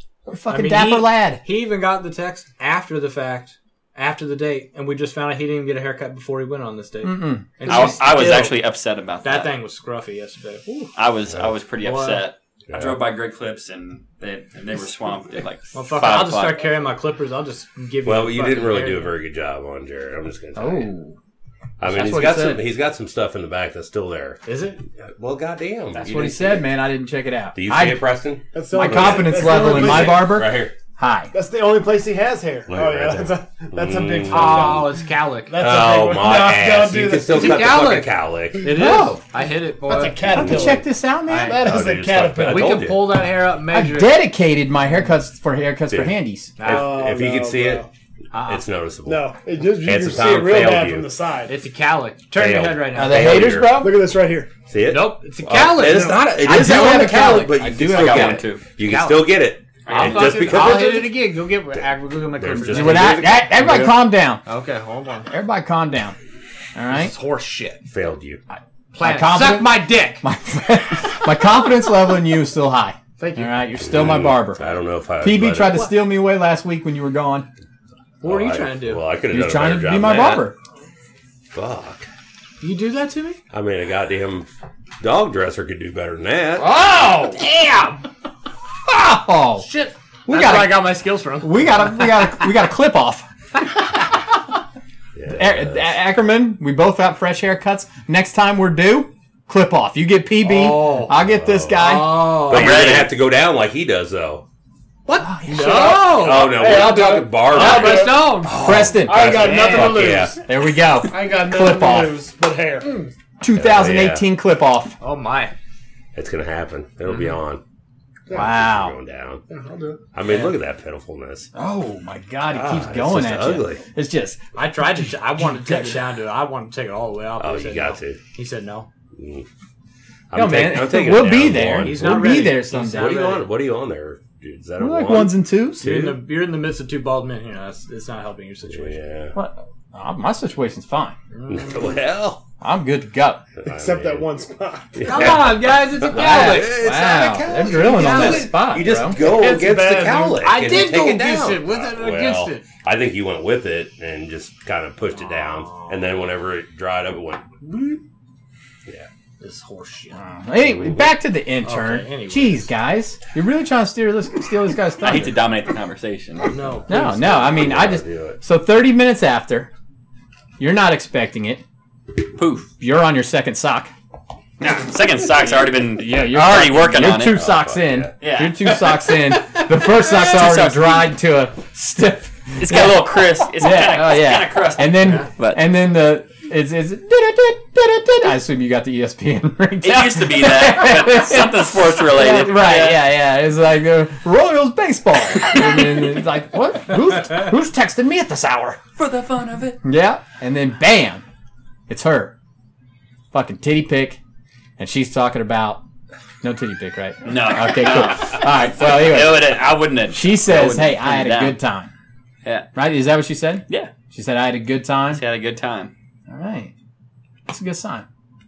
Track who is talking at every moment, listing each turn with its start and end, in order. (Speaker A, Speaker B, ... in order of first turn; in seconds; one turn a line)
Speaker A: 0.3-1.4
Speaker B: 0.5-8.6
Speaker A: 7.0-8.2
Speaker C: 7.6-9.6
Speaker B: 9.2-10.9
Speaker C: 10.9-16.7
Speaker D: 11.3-11.5
Speaker B: 11.8-12.3
Speaker D: 12.7-13.0
Speaker B: 15.7-19.1
Speaker D: 18.0-20.9
Speaker A: 20.6-21.2
Speaker D: 21.8-24.4
Speaker A: 21.8-22.6
Speaker B: 24.4-24.8
Speaker D: 25.0-26.6
Speaker A: 25.9-28.0
Speaker D: 27.5-30.7
Speaker E: 28.5-30.4
Speaker A: 28.7-31.3
Speaker E: 31.3-37.9
Speaker D: 32.7-34.9
Speaker B: 34.2-35.6
Speaker D: 35.6-38.8
Speaker B: 37.3-40.5
Speaker A: 38.6-39.2
Speaker E: 38.7-39.0
Speaker E: 39.8-42.9
Speaker D: 40.3-40.8
Speaker A: 40.4-41.6
Speaker B: 41.3-41.6
Speaker D: 41.6-43.3
Speaker B: 42.4-44.1
Speaker A: 43.7-46.6
Speaker D: 45.9-47.8
Speaker B: 46.6-47.0
Speaker E: 46.6-47.9
Speaker B: 48.3-48.6
Speaker D: 48.4-51.1
Speaker E: 49.0-51.5
Speaker B: 51.5-53.5
Speaker D: 52.3-53.9
Speaker A: 52.9-54.0
Speaker E: 53.7-54.5
Speaker D: 54.7-61.2
Speaker B: 54.8-56.2
Speaker E: 55.8-56.3
Speaker A: 56.4-58.5
Speaker C: 57.6-58.6
Speaker B: 58.8-63.4
Speaker C: 59.9-60.6
Speaker D: 62.4-63.5
Speaker A: 62.6-64.4
Speaker B: 64.5-65.3
Speaker A: 65.3-66.2
Speaker A: 66.7-67.1
Speaker B: 66.9-67.8
Speaker D: 67.9-68.4
Speaker A: 68.5-74.6
Speaker B: 68.9-70.2
Speaker B: 73.2-73.6
Speaker D: 73.8-75.9
Speaker A: 75.2-77.5
Speaker D: 78.2-80.5
Speaker B: 78.2-79.0
Speaker A: 79.3-80.5
Speaker D: 81.5-82.1
Speaker B: 82.6-83.4
Speaker D: 83.5-84.5
Speaker D: 85.0-86.7
Speaker A: 86.6-87.4
Speaker B: 87.3-88.0
Speaker A: 88.9-89.7
Speaker B: 89.6-92.3
Speaker A: 90.3-93.2
Speaker D: 95.1-95.8
Speaker A: 95.3-102.4
Speaker B: 100.4-101.2
Speaker D: 101.1-104.4
Speaker B: 101.7-103.0
Speaker C: 102.5-103.1
Speaker B: 105.0-108.7
Speaker A: 105.2-106.2
Speaker E: 105.6-110.4
Speaker D: 105.9-110.4
Speaker A: 108.5-112.3
Speaker B: 109.3-110.3
Speaker E: 111.0-113.1
Speaker A: 113.4-115.0
Speaker D: 113.5-114.2
Speaker B: 115.0-115.5
Speaker D: 116.1-117.6
Speaker A: 118.3-119.0
Speaker D: 118.3-119.4
Speaker E: 119.5-120.0
Speaker D: 120.1-121.5
Speaker B: 120.2-120.5
Speaker A: 121.5-124.4
Speaker D: 122.5-123.8
Speaker B: 124.5-128.9
Speaker A: 125.0-126.0
Speaker D: 127.4-128.2
Speaker D: 129.2-129.5
Speaker D: 130.3-136.2
Speaker A: 130.3-133.3
Speaker B: 131.8-133.5
Speaker A: 134.8-135.9
Speaker B: 135.8-139.0
Speaker D: 138.7-139.4
Speaker A: 139.3-141.2
Speaker B: 141.3-141.9
Speaker D: 141.5-142.4
Speaker A: 142.6-143.4
Speaker D: 143.6-144.3
Speaker E: 143.6-145.4
Speaker D: 144.9-157.5
Speaker B: 145.0-146.9
Speaker A: 146.1-149.2
Speaker B: 147.6-148.7
Speaker E: 149.1-150.5
Speaker B: 150.4-152.6
Speaker B: 155.1-156.2
Speaker B: 157.6-158.0
Speaker B: 159.4-160.2
Speaker A: 160.1-165.4
Speaker D: 160.6-161.1
Speaker B: 161.6-162.7
Speaker C: 165.0-166.5
Speaker B: 166.5-167.0
Speaker D: 166.8-168.4
Speaker A: 166.9-169.7
Speaker A: 170.6-171.6
Speaker C: 172.3-172.7
Speaker A: 172.8-173.9
Speaker C: 174.6-177.4
Speaker A: 175.9-198.8
Speaker D: 177.3-178.1
Speaker C: 178.2-181.2
Speaker C: 182.6-185.7
Speaker C: 189.8-193.1
Speaker C: 198.9-199.8
Speaker A: 199.8-201.2
Speaker A: 201.9-202.3
Speaker A: 203.3-204.2
Speaker A: 204.8-205.8
Speaker A: 206.4-211.9
Speaker C: 207.2-211.6
Speaker C: 212.4-212.7
Speaker A: 212.7-215.2
Speaker C: 215.1-215.9
Speaker A: 216.3-216.7
Speaker A: 217.5-218.1